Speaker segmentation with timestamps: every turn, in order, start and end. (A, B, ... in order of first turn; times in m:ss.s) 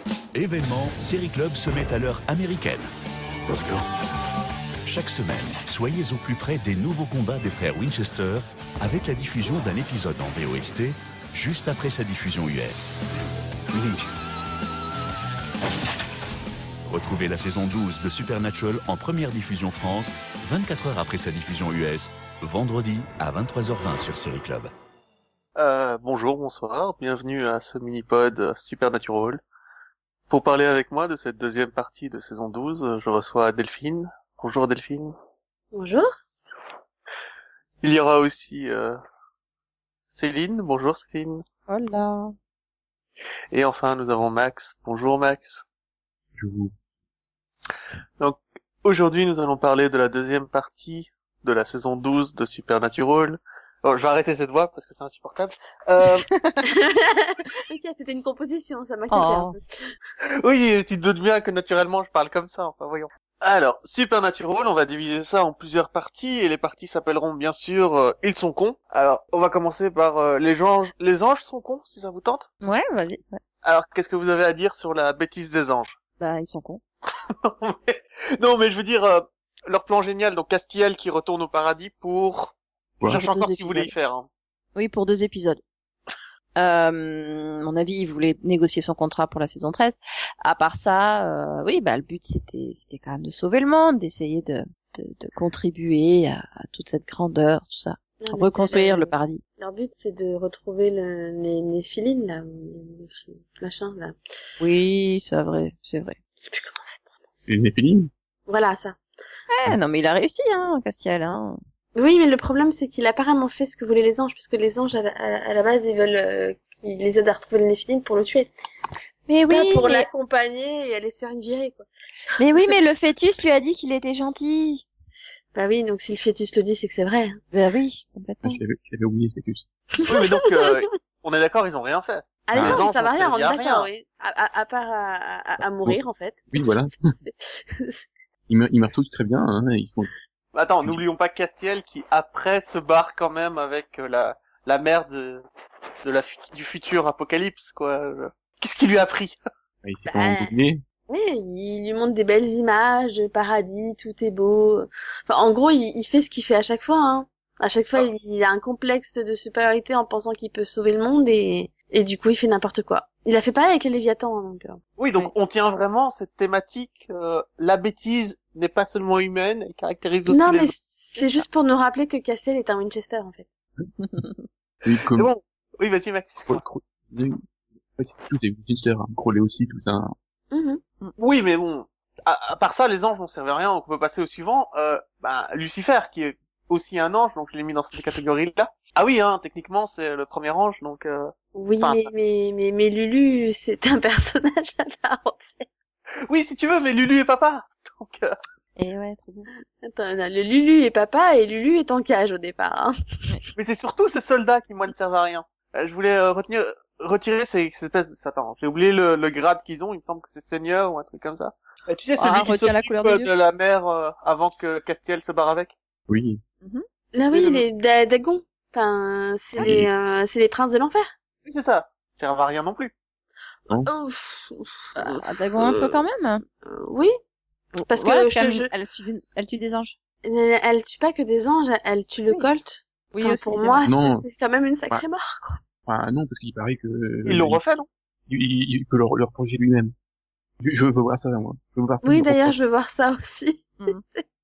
0:00.3-0:02.9 A
0:03.5-0:03.8 A
0:04.8-0:13.0 A
0:13.7-0:14.1 A
0:16.9-0:24.7 A
0:25.6-0:29.4 B
0:30.3-0:35.1 B
0:35.7-0:36.1 C
0:37.8-0:39.0 B
0:40.1-0:41.4 B
0:41.7-0:42.3 D
0:43.5-0:45.6 B
0:46.3-0:46.7 E
0:48.2-0:56.3 B
0:56.2-0:56.6 D
0:56.6-0:59.6 C
0:59.1-0:59.6 D
1:00.2-1:12.5 B
1:12.6-1:13.4 D
1:13.6-1:16.0 B
1:16.2-1:16.8 D
1:17.4-1:24.3 B
1:23.1-1:23.9 D
1:24.7-1:25.6 D
1:26.6-1:39.4 D
1:38.2-1:44.2 C
1:44.6-1:46.2 D
1:46.4-1:47.5 C
1:47.5-1:48.1 E
1:48.5-1:49.0 C
1:49.5-1:51.6 D
1:52.0-1:58.5 C
1:59.3-2:00.1 D
1:59.5-2:01.8 C
2:02.4-2:04.8 D
2:05.5-2:07.4 C
2:07.5-2:08.6 D
2:08.4-2:09.6 E
2:10.0-2:10.8 C
2:10.1-2:13.9 B
2:12.4-2:18.0 C
2:12.5-2:12.8 E
2:15.8-2:17.0 E
2:18.5-2:20.1 E
2:20.5-2:25.4 B
2:26.0-2:29.4 B
2:29.8-2:30.8 E
2:30.0-2:30.5 C
2:31.1-2:44.8 C
2:45.0-2:50.7 B
2:50.3-2:53.4 C
2:54.0-2:54.4 D
2:54.8-2:55.3 E
2:55.1-2:56.6 B
2:56.5-2:57.4 E
2:58.0-3:00.1 E
3:00.5-3:00.8 C
3:01.2-3:12.1 B
3:11.5-3:15.6 C
3:16.3-3:18.4 B
3:18.8-3:19.5 D
3:19.8-3:22.9 C
3:23.5-3:35.7 B
3:32.2-3:33.3 D
3:36.1-3:36.4 E
3:37.1-3:41.1 C
3:37.3-3:37.6 B
3:39.6-3:39.9 E
3:41.4-3:42.9 B
3:43.7-3:46.0 C
3:45.0-3:46.4 D
3:46.6-3:47.1 C
3:47.8-3:48.7 C
3:47.9-3:49.9 D
3:50.2-3:55.6 C
3:53.1-3:53.9 D
3:53.8-3:54.2 E
3:55.8-3:57.6 E
3:57.2-3:57.9 B
3:58.3-3:59.9 E
4:00.6-4:02.6 E
4:02.0-4:04.2 C